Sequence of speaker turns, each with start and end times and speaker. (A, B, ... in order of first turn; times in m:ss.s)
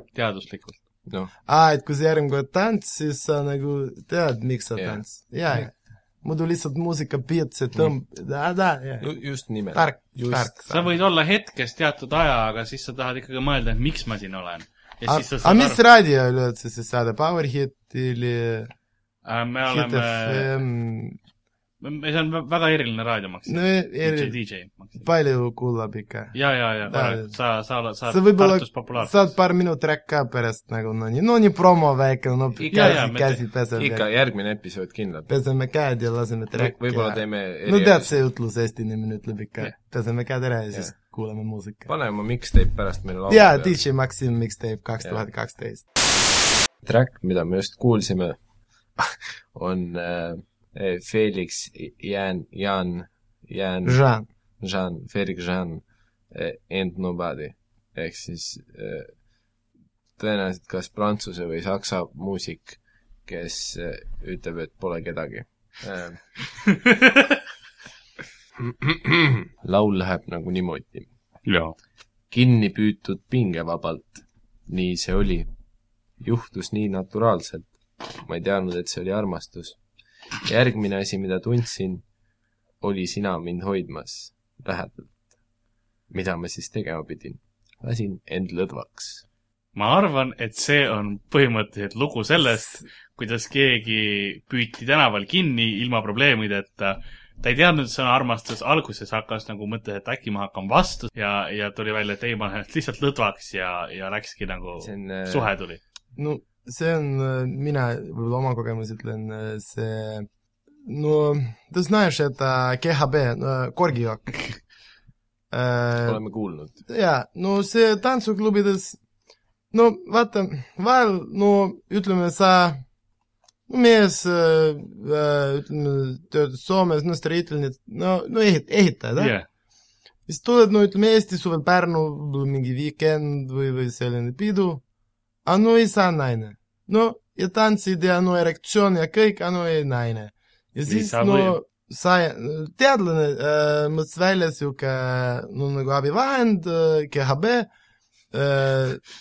0:00.1-0:00.8 A
0:01.1-0:01.3 B
0:01.5-0:10.8 C
0:04.8-0:05.0 B
0:09.0-0:10.5 B
0:10.7-0:15.8 A
0:15.1-0:18.7 C
0:19.2-0:20.5 A
0:19.7-0:21.2 C
0:21.8-0:25.1 A
0:23.5-0:24.4 C
0:24.9-0:27.4 C
0:26.3-0:29.3 A
0:28.1-0:34.0 C
0:32.6-0:35.3 B
0:32.7-0:33.4 A
0:35.3-0:41.9 C
0:36.5-0:38.2 B
0:41.9-0:43.8 B
0:43.3-0:45.8 C
0:46.8-0:48.4 B
0:49.0-0:54.0 B
0:53.8-0:54.3 C
0:54.6-0:59.1 B
1:00.2-1:06.5 B
1:06.9-1:07.2 A
1:08.7-1:11.1 B
1:11.5-1:11.8 A
1:12.3-1:15.5 B
1:16.2-1:19.8 B
1:20.4-1:22.0 B
1:22.8-1:25.2 B
1:26.1-1:29.2 B
1:29.8-1:45.8 A
1:44.8-1:45.5 B
1:46.2-1:50.3 C
1:50.8-1:54.6 C
1:55.5-1:56.2 C
1:56.0-1:56.8 B
1:56.9-1:59.0 C
1:59.7-2:02.8 C
2:03.7-2:09.4 C
2:09.2-2:09.5 A
2:10.3-2:14.8 C
2:15.4-2:27.7 C
2:20.9-2:21.6 A
2:28.3-2:29.0 C